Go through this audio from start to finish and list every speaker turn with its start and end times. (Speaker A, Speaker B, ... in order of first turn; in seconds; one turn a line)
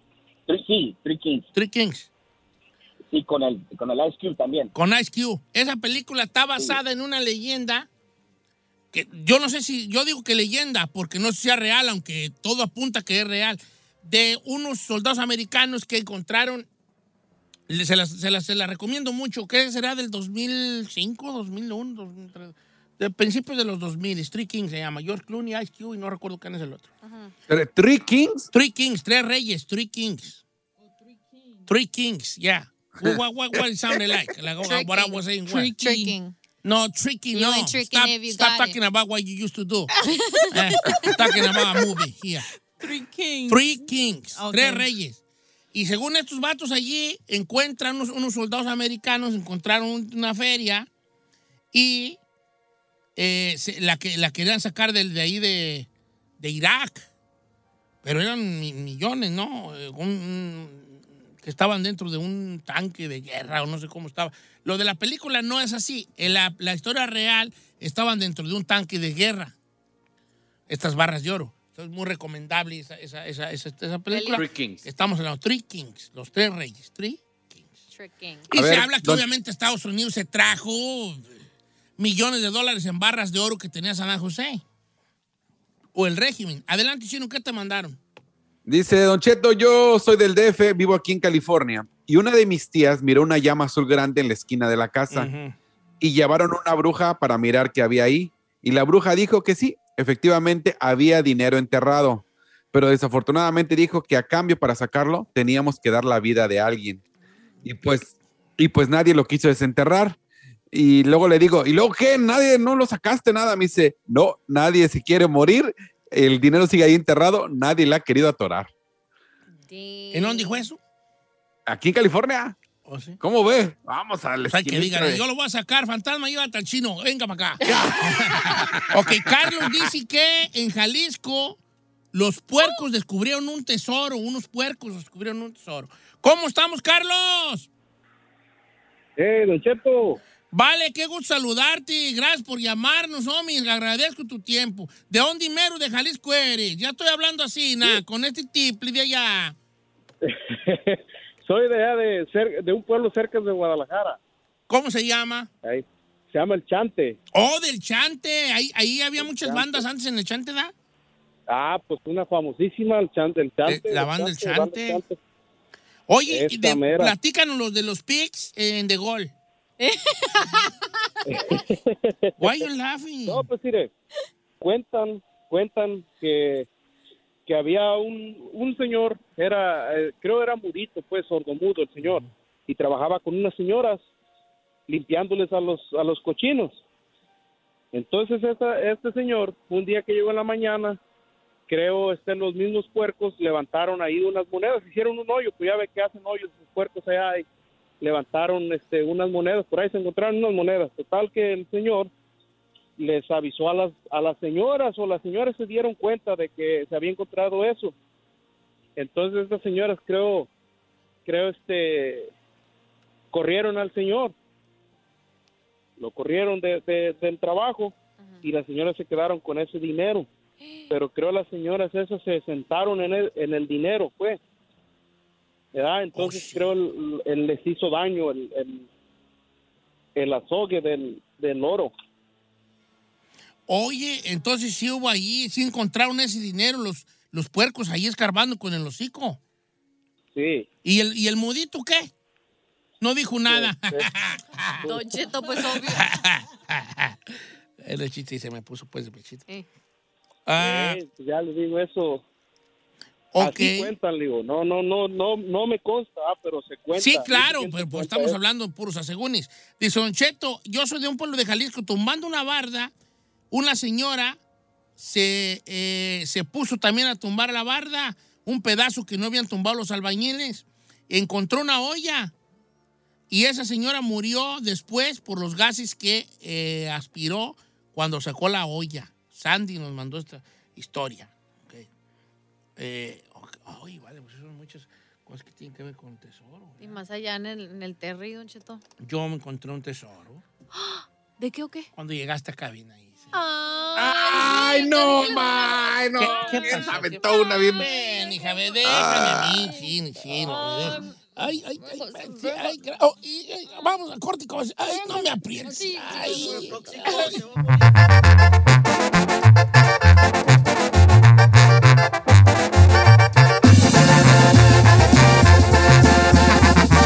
Speaker A: 0.5-1.5
Speaker B: 1.5-2.1
Speaker A: 3.1-4.7
Speaker B: 4.7-7.9
Speaker B: 8.9-16.6
Speaker B: 17.7-26.9
Speaker C: 27.0-27.3
Speaker D: 27.5-28.5
Speaker B: 28.5-30.4
Speaker B: 31.7-35.7
Speaker C: 34.6-35.2
Speaker E: 35.5-36.1
Speaker C: 35.8-36.3
Speaker B: 36.6-42.5
Speaker C: 37.3-38.8
Speaker C: 40.0-41.1
Speaker E: 42.8-43.7
Speaker B: 43.5-45.2
Speaker E: 44.3-44.9
Speaker B: 45.7-50.9
Speaker B: 51.7-52.2
Speaker B: 53.1-55.9
Speaker B: 56.4-57.1
Speaker B: 58.0-69.5
Speaker B: 70.7-77.7
Speaker C: 74.1-74.4
Speaker D: 74.3-74.8
Speaker C: 77.9-78.5
Speaker D: 78.5-79.2
Speaker B: 78.5-81.4
Speaker B: 82.0-84.6
Speaker B: 85.9-88.0
Speaker D: 88.7-95.3
Speaker B: 95.1-95.5
Speaker D: 96.0-107.0
Speaker D: 107.6-110.2
Speaker D: 110.7-118.7
Speaker C: 119.7-120.6
Speaker B: 120.1-120.8
Speaker D: 121.7-122.5
Speaker B: 122.8-123.2
Speaker D: 123.2-125.2
Speaker B: 124.5-131.6
Speaker D: 127.7-129.9
Speaker B: 132.1-137.7
Speaker F: 139.2-140.2
Speaker B: 140.5-149.6
Speaker F: 150.2-154.2
Speaker B: 154.7-155.5
Speaker F: 155.6-157.2
Speaker B: 157.3-160.7
Speaker F: 159.2-159.8
Speaker F: 161.5-165.2
Speaker B: 163.6-165.0
Speaker B: 166.1-169.3
Speaker F: 166.3-167.2
Speaker C: 169.8-171.6
Speaker F: 171.2-172.7
Speaker B: 172.4-173.5
Speaker F: 173.3-173.9
Speaker F: 174.6-176.7
Speaker F: 177.4-184.0
Speaker B: 182.0-182.3
Speaker F: 184.9-186.8
Speaker F: 187.9-191.0
Speaker F: 191.7-197.4
Speaker F: 198.0-202.1
Speaker F: 203.0-207.9
Speaker F: 208.9-210.5
Speaker F: 211.2-212.3
Speaker F: 213.3-214.3
Speaker F: 216.0-220.3
Speaker C: 220.6-221.0
Speaker F: 220.9-224.4
Speaker F: 225.7-228.9
Speaker B: 226.1-226.7
Speaker F: 230.1-231.9
Speaker B: 233.7-239.4
Speaker F: 240.3-240.7
Speaker B: 240.8-242.1
Speaker B: 243.0-244.9
Speaker F: 243.5-244.1
Speaker F: 244.8-245.2
Speaker C: 244.8-246.1
Speaker B: 245.7-249.5
Speaker B: 250.5-251.0
Speaker F: 250.6-252.2
Speaker B: 253.3-253.9
Speaker F: 253.4-258.4
Speaker B: 256.9-262.9
Speaker B: 263.5-264.4
Speaker B: 265.0-272.3
Speaker B: 273.3-281.9
Speaker B: 282.8-286.9
Speaker C: 286.8-288.8
Speaker B: 289.0-290.4
Speaker C: 290.7-291.9
Speaker B: 291.9-293.3
Speaker C: 293.3-298.7
Speaker D: 293.9-297.9
Speaker B: 296.1-307.4
Speaker D: 298.8-299.7
Speaker C: 300.3-301.2
Speaker C: 301.8-302.7
Speaker C: 304.9-307.5